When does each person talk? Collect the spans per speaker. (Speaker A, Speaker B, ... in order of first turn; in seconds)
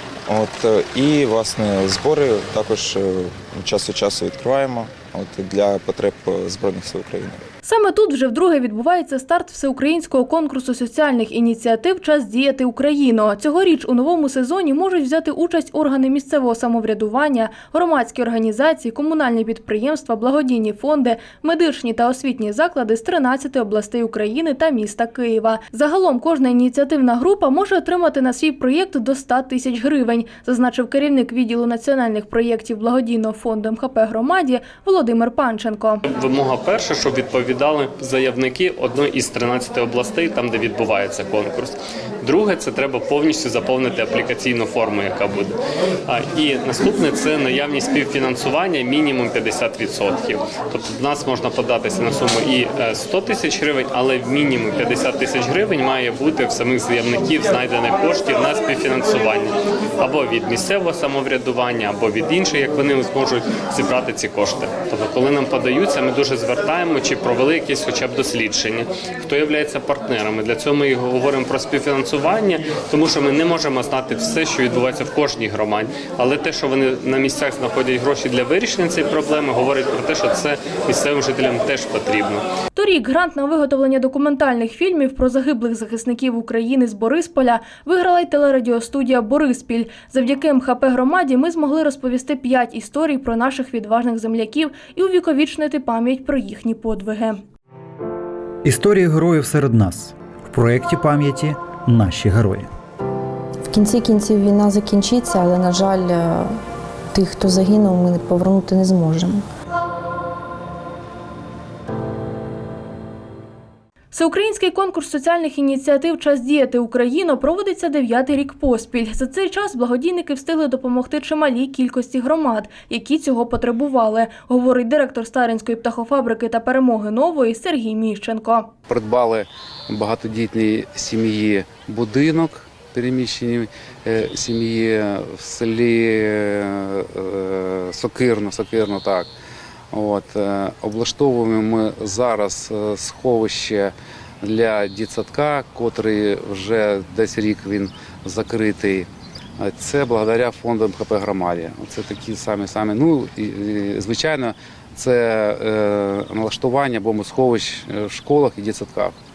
Speaker A: 0.3-7.4
Speaker B: 7.7-36.0, 82.8-97.4, 114.1-128.7
Speaker C: 36.1-82.4
Speaker D: 98.6-102.7
Speaker E: 103.7-106.6, 107.1-109.4
Speaker F: 128.9-139.3, 139.9-159.1